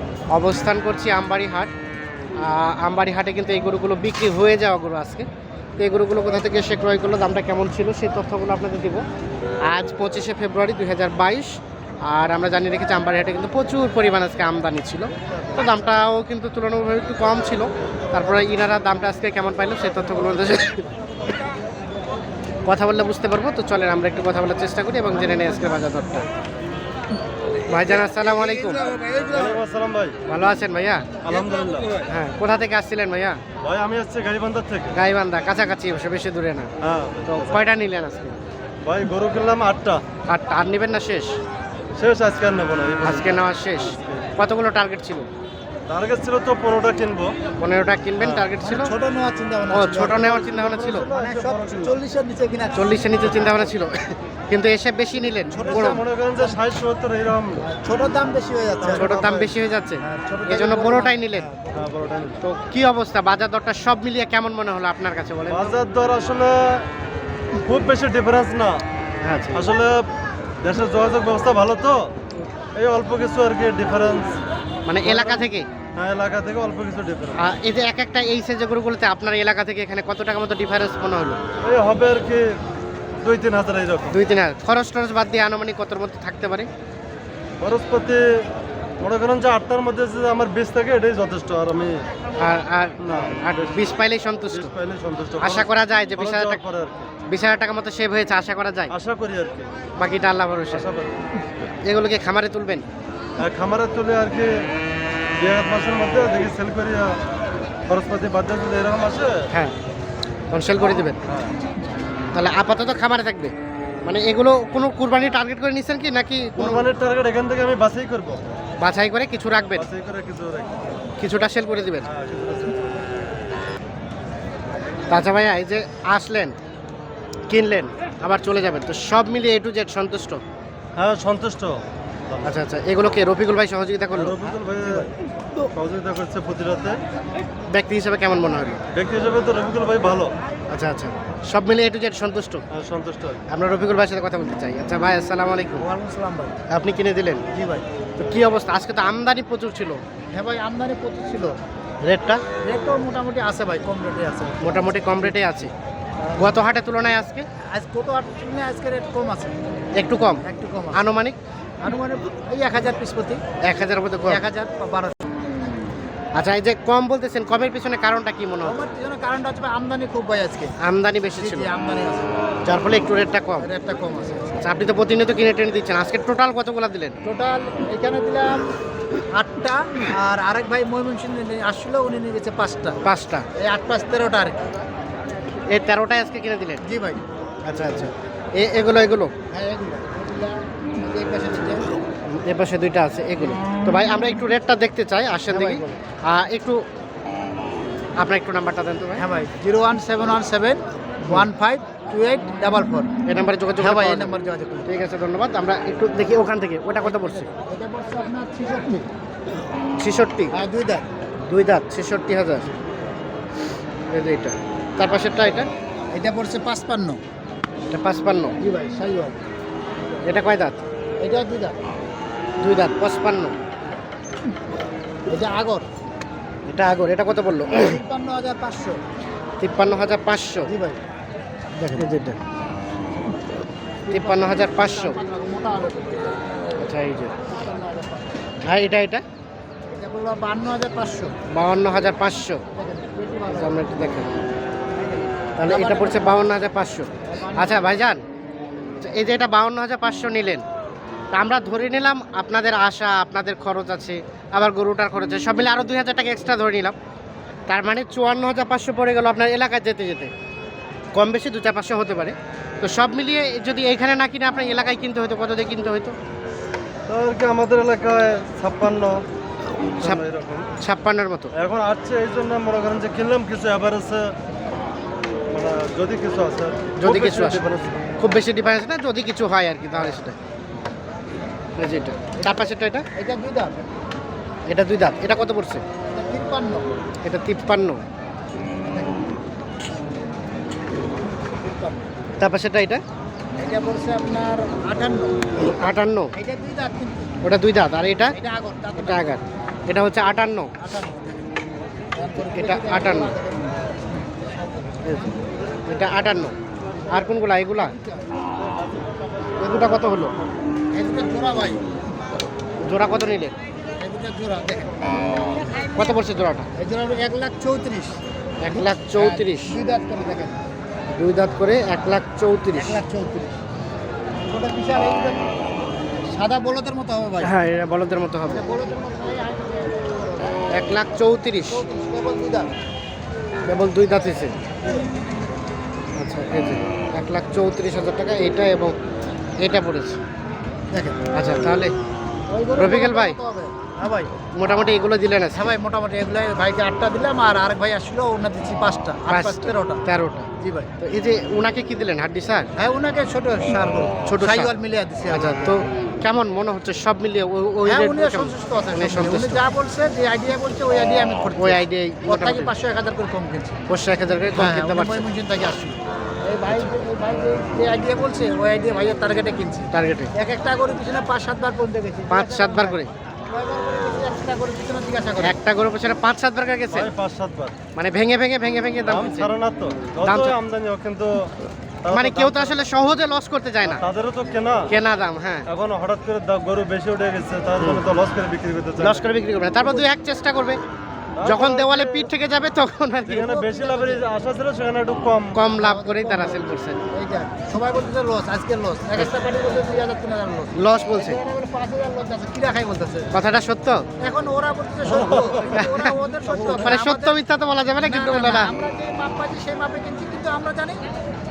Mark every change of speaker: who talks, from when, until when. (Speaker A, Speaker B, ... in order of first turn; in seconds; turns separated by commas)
Speaker A: 0.3-1.7, Speaker A: 2.4-5.2, Speaker A: 5.8-9.0, Speaker A: 9.7-11.5, Speaker A: 12.0-20.8, Speaker A: 22.6-26.3, Speaker A: 27.7-29.0, Speaker B: 29.2-30.2, Speaker A: 30.3-31.2, Speaker B: 31.2-32.0, Speaker A: 32.1-33.4, Speaker B: 33.6-35.0, Speaker A: 34.9-36.7, Speaker B: 36.8-37.6, Speaker A: 37.3-38.4, Speaker B: 38.8-40.0, Speaker A: 40.3-41.3, Speaker B: 42.0-44.3, Speaker A: 43.0-45.3, Speaker B: 45.9-47.3, Speaker A: 47.6-48.9, Speaker C: 48.2-50.3, Speaker A: 49.7-51.1, Speaker B: 50.0-52.0, Speaker C: 51.1-53.4, Speaker A: 52.7-56.0, Speaker C: 55.5-56.5, Speaker B: 55.6-57.6, Speaker C: 57.6-59.1, Speaker B: 58.8-59.5, Speaker A: 58.9-61.5, Speaker C: 60.0-61.8, Speaker B: 61.7-62.4, Speaker A: 62.4-65.8, Speaker B: 65.5-66.9, Speaker B: 67.6-68.8, Speaker A: 69.2-69.7, Speaker B: 69.5-69.9, Speaker B: 70.6-72.1, Speaker B: 72.8-74.4, Speaker A: 74.8-75.7, Speaker B: 75.0-77.5, Speaker A: 77.3-81.4, Speaker B: 81.6-82.5, Speaker B: 83.2-84.2, Speaker A: 84.1-86.7, Speaker B: 87.6-88.2, Speaker B: 89.0-92.0, Speaker A: 92.4-94.7, Speaker B: 93.0-93.8, Speaker B: 94.5-97.1, Speaker A: 95.4-96.6, Speaker A: 97.3-98.9, Speaker B: 98.9-99.7, Speaker A: 100.0-100.8, Speaker B: 100.7-101.2, Speaker A: 101.8-102.8, Speaker B: 103.4-104.5, Speaker B: 105.4-107.2, Speaker B: 107.9-109.4, Speaker A: 110.5-111.2, Speaker B: 111.2-111.5, Speaker A: 112.3-116.8, Speaker B: 116.6-118.6, Speaker A: 118.8-119.9, Speaker B: 119.8-120.8, Speaker A: 121.2-122.1, Speaker B: 122.0-123.0, Speaker A: 125.1-126.5, Speaker A: 127.5-130.4, Speaker B: 130.9-131.8, Speaker B: 132.3-132.6, Speaker A: 132.4-134.4, Speaker B: 134.1-135.1, Speaker B: 135.7-137.0, Speaker A: 137.7-138.8, Speaker B: 138.9-140.3, Speaker A: 140.7-142.6, Speaker B: 142.7-143.4, Speaker A: 143.5-145.9, Speaker C: 145.8-146.6, Speaker A: 146.7-147.4, Speaker C: 147.5-147.8, Speaker A: 148.2-150.0, Speaker C: 150.3-151.5, Speaker A: 152.0-152.4, Speaker C: 152.6-155.3, Speaker A: 154.6-155.7, Speaker A: 156.4-157.4, Speaker C: 157.7-159.6, Speaker A: 159.9-160.4, Speaker C: 160.4-161.0, Speaker A: 160.9-161.4, Speaker C: 161.8-163.4, Speaker A: 163.6-164.4, Speaker C: 164.3-165.4, Speaker A: 166.3-168.8, Speaker C: 168.6-170.8, Speaker A: 170.8-171.7, Speaker C: 171.3-172.3, Speaker A: 172.6-173.7, Speaker C: 173.6-174.6, Speaker A: 174.6-177.1, Speaker C: 177.2-178.7, Speaker C: 179.3-183.0, Speaker A: 183.0-183.4, Speaker C: 183.6-184.6, Speaker A: 185.7-186.8, Speaker C: 186.8-187.2, Speaker A: 187.7-189.3, Speaker C: 189.5-191.8, Speaker A: 192.3-196.8, Speaker C: 195.5-196.0, Speaker A: 198.2-199.2, Speaker C: 199.2-203.1, Speaker A: 203.2-207.5, Speaker C: 203.8-204.9, Speaker C: 207.0-209.1, Speaker A: 210.0-210.5, Speaker C: 210.5-211.1, Speaker A: 211.5-212.7, Speaker A: 214.1-215.7, Speaker C: 216.1-217.2, Speaker A: 217.9-218.5, Speaker C: 218.6-219.4, Speaker A: 220.2-220.8, Speaker C: 221.2-221.8, Speaker A: 222.6-223.5, Speaker C: 225.3-225.8, Speaker A: 226.7-228.0, Speaker C: 227.7-229.0, Speaker A: 229.6-230.7, Speaker C: 230.7-231.0, Speaker A: 231.8-232.4, Speaker C: 234.1-236.4, Speaker A: 234.1-235.2, Speaker A: 236.8-237.3, Speaker C: 237.5-238.4, Speaker A: 238.6-239.2, Speaker C: 239.9-241.3, Speaker A: 241.5-242.6, Speaker C: 242.7-243.8, Speaker A: 243.5-244.4, Speaker C: 244.9-246.5, Speaker A: 245.6-248.2, Speaker C: 247.2-248.0, Speaker A: 249.0-250.6, Speaker A: 251.3-256.9, Speaker A: 257.7-260.3, Speaker A: 261.1-266.1, Speaker B: 267.1-269.2, Speaker B: 270.0-270.7, Speaker A: 270.8-271.5, Speaker B: 271.5-274.3, Speaker B: 275.5-278.0, Speaker A: 277.0-277.6, Speaker A: 278.2-280.4, Speaker A: 281.8-283.1, Speaker C: 283.1-283.8, Speaker A: 284.6-285.8, Speaker C: 286.1-286.9, Speaker A: 287.2-288.0, Speaker C: 288.9-289.2, Speaker C: 291.5-292.0, Speaker A: 292.4-293.0, Speaker C: 293.6-295.5, Speaker A: 295.6-296.3, Speaker C: 296.3-297.3, Speaker A: 297.4-298.4, Speaker C: 298.3-299.4, Speaker A: 299.0-300.7, Speaker C: 300.8-301.5, Speaker C: 302.1-305.3, Speaker A: 302.5-303.3, Speaker A: 305.0-306.6, Speaker C: 307.1-308.3, Speaker A: 307.1-307.9, Speaker B: 308.8-309.1, Speaker A: 309.6-310.3, Speaker B: 309.6-309.9, Speaker C: 310.9-311.8, Speaker A: 312.8-313.5, Speaker C: 314.0-315.0, Speaker A: 315.9-316.7, Speaker C: 316.8-318.2, Speaker A: 318.6-319.7, Speaker C: 318.7-320.6, Speaker A: 321.1-323.0, Speaker C: 322.7-323.5, Speaker C: 324.4-325.5, Speaker C: 326.3-327.5, Speaker A: 327.4-328.6, Speaker C: 328.4-330.6, Speaker A: 330.7-331.8, Speaker C: 331.6-332.7, Speaker A: 333.7-334.5, Speaker A: 336.1-338.9, Speaker A: 339.6-340.2, Speaker C: 340.9-341.2, Speaker A: 341.3-341.9, Speaker C: 342.5-344.3, Speaker A: 342.8-343.4, Speaker A: 344.5-345.7, Speaker C: 345.5-350.0, Speaker A: 349.3-350.5, Speaker C: 350.6-350.9, Speaker A: 351.0-352.7, Speaker C: 352.8-355.7, Speaker A: 354.2-354.7, Speaker A: 355.3-359.6, Speaker C: 357.9-363.8, Speaker A: 361.6-362.7, Speaker A: 363.9-365.2, Speaker C: 364.5-375.6, Speaker A: 369.9-370.3, Speaker A: 372.3-373.1, Speaker A: 375.4-377.1, Speaker B: 376.9-377.8, Speaker A: 377.9-379.5, Speaker B: 379.1-381.5, Speaker A: 380.2-380.6, Speaker B: 382.0-382.8, Speaker A: 382.1-384.0, Speaker B: 383.8-384.9, Speaker A: 384.9-385.7, Speaker B: 385.7-389.3, Speaker A: 389.0-390.8, Speaker B: 391.4-392.3, Speaker A: 391.4-393.5, Speaker B: 393.3-395.6, Speaker C: 393.4-394.2, Speaker A: 395.5-397.0, Speaker C: 395.7-403.3, Speaker A: 400.7-401.4, Speaker A: 403.3-404.1, Speaker C: 404.2-407.4, Speaker A: 405.7-408.7, Speaker C: 408.0-411.0